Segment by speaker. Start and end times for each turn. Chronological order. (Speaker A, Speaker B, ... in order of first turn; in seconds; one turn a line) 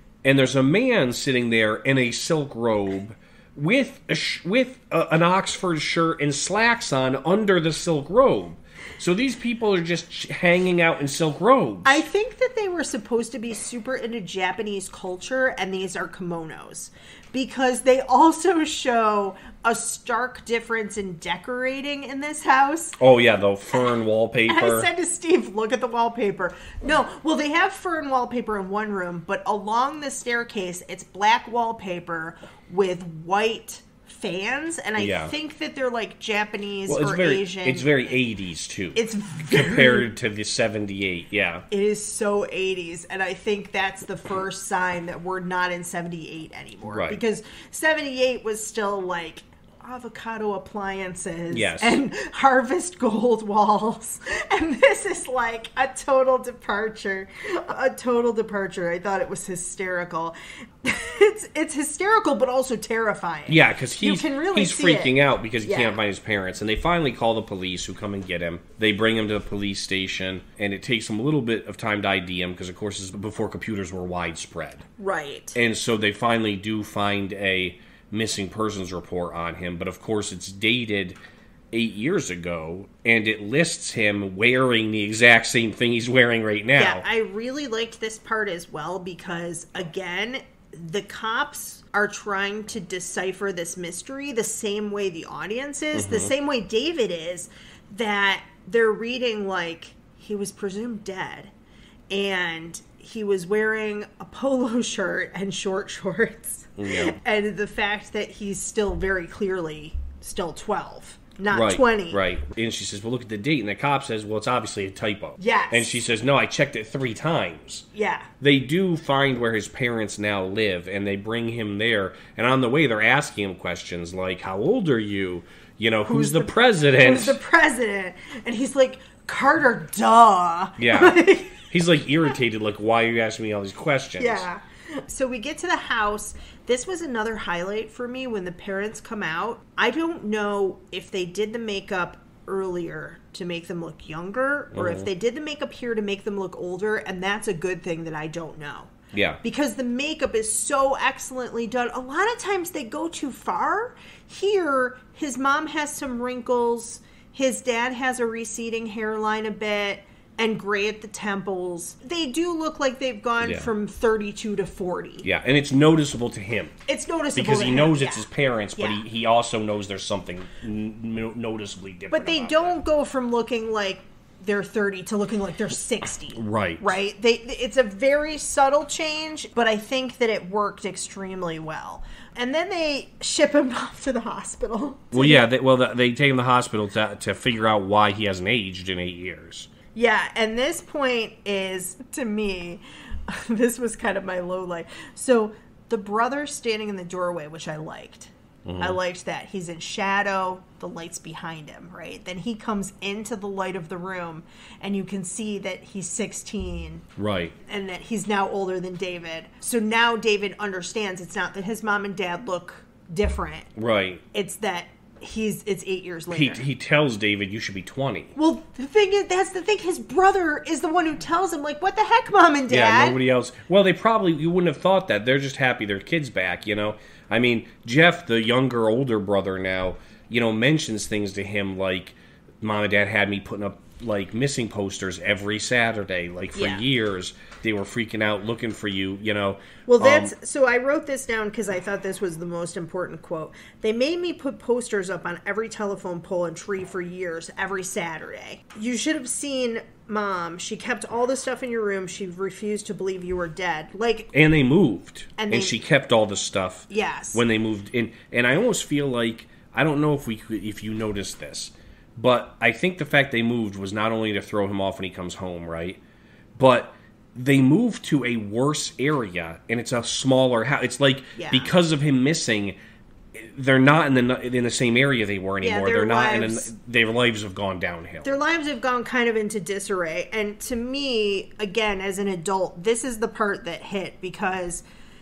Speaker A: 0.2-12.0
Speaker B: 11.8-23.0
Speaker A: 23.0-24.9
Speaker B: 24.5-38.0
Speaker A: 35.0-35.3
Speaker A: 36.9-41.6
Speaker B: 38.9-40.1
Speaker B: 41.7-66.0
Speaker A: 46.9-47.2
Speaker A: 51.5-52.0
Speaker A: 63.5-74.8
Speaker B: 75.0-75.6
Speaker A: 75.5-81.2
Speaker A: 81.7-87.0
Speaker B: 86.8-101.5
Speaker A: 95.9-96.3
Speaker B: 102.1-112.2
Speaker A: 106.8-107.2
Speaker A: 111.5-117.9
Speaker B: 115.4-116.0
Speaker B: 117.9-118.3
Speaker A: 118.4-127.4
Speaker B: 126.1-131.7
Speaker A: 130.8-134.4
Speaker B: 134.2-165.2
Speaker A: 144.7-145.1
Speaker A: 149.1-149.4
Speaker A: 163.4-163.7
Speaker A: 165.2-166.8
Speaker B: 166.9-168.2
Speaker A: 167.3-172.8
Speaker B: 168.8-169.0
Speaker B: 172.1-185.4
Speaker A: 176.3-176.9
Speaker A: 185.1-189.7
Speaker B: 189.9-207.1
Speaker A: 198.6-199.0
Speaker A: 207.2-207.5
Speaker B: 207.7-213.7
Speaker A: 213.8-214.2
Speaker B: 214.3-216.6
Speaker A: 216.3-218.3
Speaker B: 218.3-223.2
Speaker A: 222.7-240.3
Speaker B: 236.5-236.8
Speaker B: 239.9-254.3
Speaker A: 254.3-266.0
Speaker B: 255.4-255.8
Speaker B: 256.9-257.4
Speaker A: 266.6-272.8
Speaker B: 271.4-271.7
Speaker A: 273.3-278.4
Speaker B: 275.6-276.7
Speaker B: 278.2-284.8